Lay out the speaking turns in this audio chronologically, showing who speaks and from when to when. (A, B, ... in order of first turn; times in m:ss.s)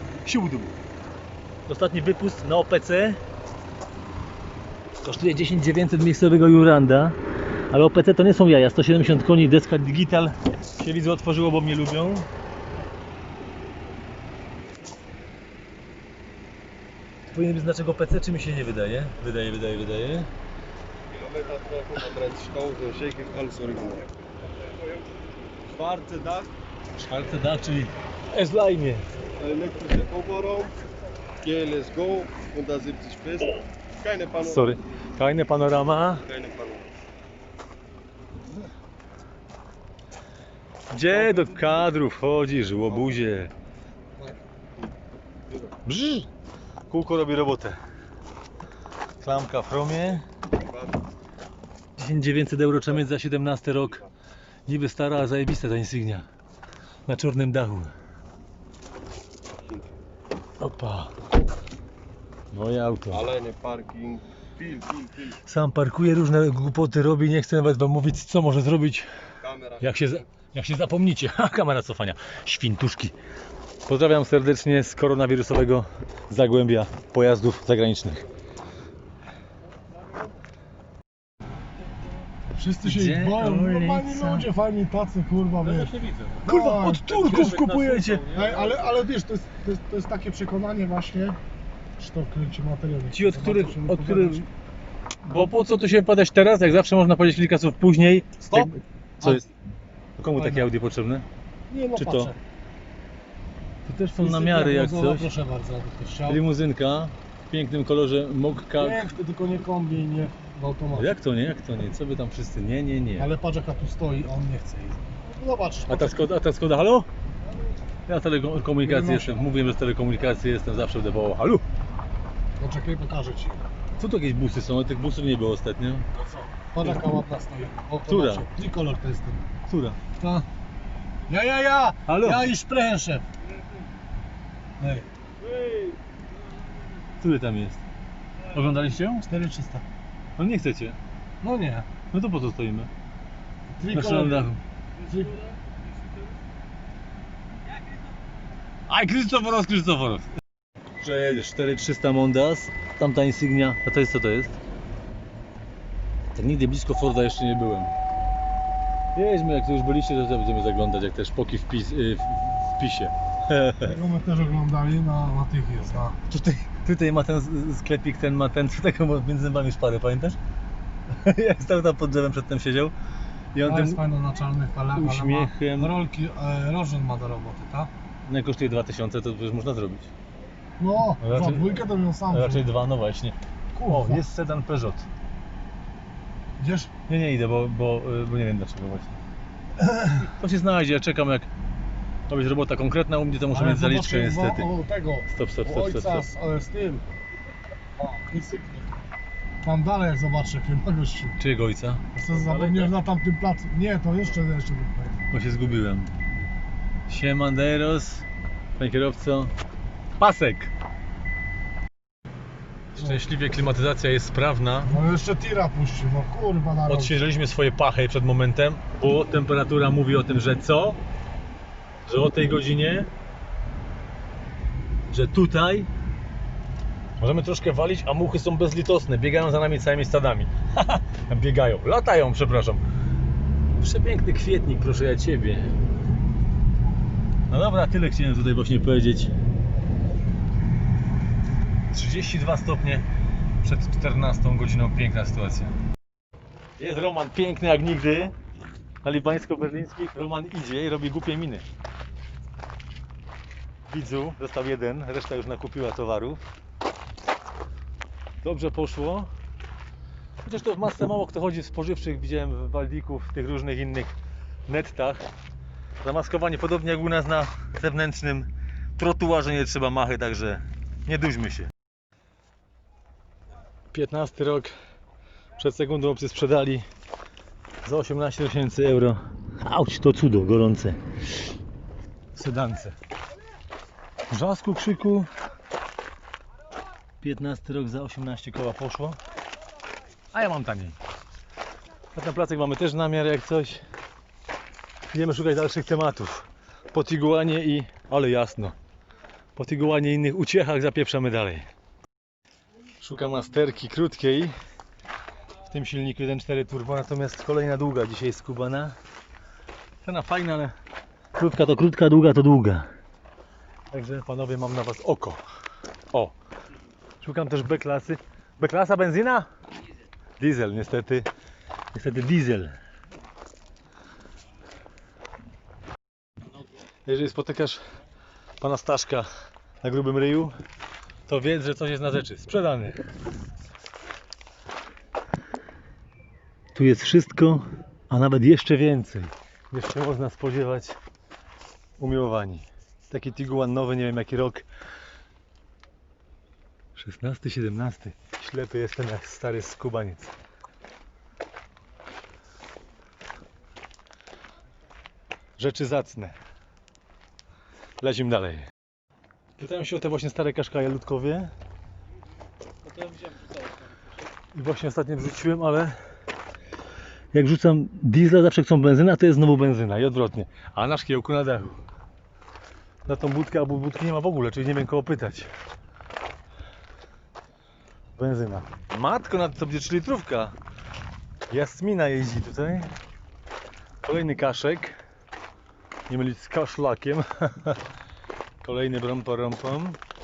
0:00.2-0:00.8 A
0:01.7-0:03.2 A
0:05.0-0:07.2 A
0:07.7-0:12.3 A
0:17.3-0:20.3 A
0:21.1-0:24.1 B
0:25.7-0:26.5 B
0:27.0-0:29.0 A
0:29.4-0:30.7 B
0:31.4-0:34.8 B
0:34.4-0:36.2 A
0:36.2-0:36.9 B
0:40.9-0:43.5 A
0:41.2-0:41.8 B
0:45.8-0:46.3 A
0:46.9-0:47.8 A
0:49.2-0:50.3 A
0:50.6-0:50.9 B
0:52.0-0:54.0 A
0:54.7-0:56.3 A
0:57.1-0:57.9 A
0:59.6-0:59.9 B
1:00.6-1:01.2 A
1:02.5-1:03.3 A
1:03.1-1:05.4 B
1:05.4-1:09.1 A
1:09.4-1:10.2 B
1:09.8-1:13.2 A
1:13.9-1:18.2 A
1:22.5-1:31.4 C
1:22.8-1:24.5 A
1:25.6-1:28.8 A
1:28.3-1:28.8 B
1:32.0-1:34.5 C
1:33.1-1:34.5 A
1:35.2-1:39.5 A
1:38.5-1:39.4 C
1:40.2-1:41.3 A
1:40.4-1:40.7 C
1:41.7-1:42.4 C
1:42.0-1:42.3 A
1:43.8-1:45.3 A
1:44.2-1:46.4 C
1:46.3-1:49.2 A
1:48.8-1:51.1 C
1:50.9-1:53.3 A
1:53.2-1:56.2 C
1:55.9-1:57.1 A
1:58.1-2:01.6 A
1:58.8-1:59.5 C
2:02.6-2:03.7 C
2:04.0-2:06.1 A
2:06.7-2:09.5 C
2:08.0-2:08.5 A
2:09.7-2:10.0 A
2:10.2-2:10.5 C
2:11.3-2:13.3 C
2:12.1-2:12.5 A
2:14.8-2:15.1 C
2:17.2-2:17.8 A
2:18.5-2:19.3 A
2:19.2-2:19.9 C
2:20.4-2:21.0 A
2:21.4-2:21.9 C
2:22.1-2:22.9 A
2:23.8-2:25.4 C
2:23.9-2:24.6 A
2:28.9-2:30.3 A
2:31.0-2:34.6 A
2:36.3-2:37.9 A
2:39.2-2:43.9 A
2:43.8-2:46.2 C
2:46.3-2:50.4 A
2:51.1-2:52.9 A
2:53.5-2:54.0 A
2:53.6-2:57.9 C
2:54.9-2:55.9 A
2:58.3-3:00.1 A
3:00.8-3:02.7 C
3:01.2-3:05.1 A
3:03.7-3:04.2 C
3:06.6-3:06.9 C
3:07.1-3:09.2 A
3:09.8-3:10.3 C
3:10.2-3:11.5 A
3:12.3-3:14.7 A
3:13.5-3:17.0 C
3:15.3-3:16.3 A
3:18.0-3:19.0 C
3:19.6-3:21.4 C
3:21.4-3:22.9 A
3:22.1-3:25.2 C
3:25.3-3:26.1 A
3:27.1-3:28.2 A
3:28.8-3:29.5 A
3:30.2-3:30.7 A
3:32.9-3:35.0 A
3:34.9-3:37.2 C
3:36.9-3:41.0 A
3:42.1-3:43.1 A
3:45.1-3:45.9 A
3:47.2-3:52.8 A
3:53.8-3:55.8 A
3:57.5-3:59.3 A
4:01.9-4:03.1 A
4:03.6-4:05.7 A
4:06.8-4:08.3 A
4:09.0-4:11.7 A
4:13.9-4:16.4 A
4:18.4-4:19.3 A
4:20.4-4:24.1 A
4:24.7-4:25.2 A
4:26.0-4:31.7 A
4:33.9-4:34.7 A
4:35.6-4:36.8 A
4:37.8-4:41.0 A
4:42.3-4:43.0 A
4:44.3-4:45.3 A
4:47.2-4:49.2 A
4:50.3-4:51.0 A
4:52.1-4:53.8 A
4:55.1-4:58.8 A
4:59.6-5:01.7 A
5:03.0-5:04.5 A
5:05.7-5:09.0 A
5:10.0-5:10.8 A
5:11.4-5:12.9 A
5:13.9-5:15.4 A
5:17.2-5:19.5 A
5:20.4-5:21.3 A
5:21.9-5:22.8 A
5:27.0-5:27.8 A
5:28.6-5:29.3 A
5:29.8-5:30.5 A
5:31.3-5:33.0 A
5:36.8-5:41.0 A
5:42.0-5:44.6 A
5:46.9-5:50.3 A
5:55.6-5:56.4 A
5:58.0-5:58.7 A
5:59.6-6:01.5 A
6:02.9-6:03.8 B
6:04.5-6:06.0 A
6:07.3-6:11.8 A
6:13.0-6:15.5 A
6:18.2-6:20.6 A
6:21.5-6:22.9 A
6:24.0-6:25.0 A
6:26.1-6:27.8 A
6:28.6-6:30.0 A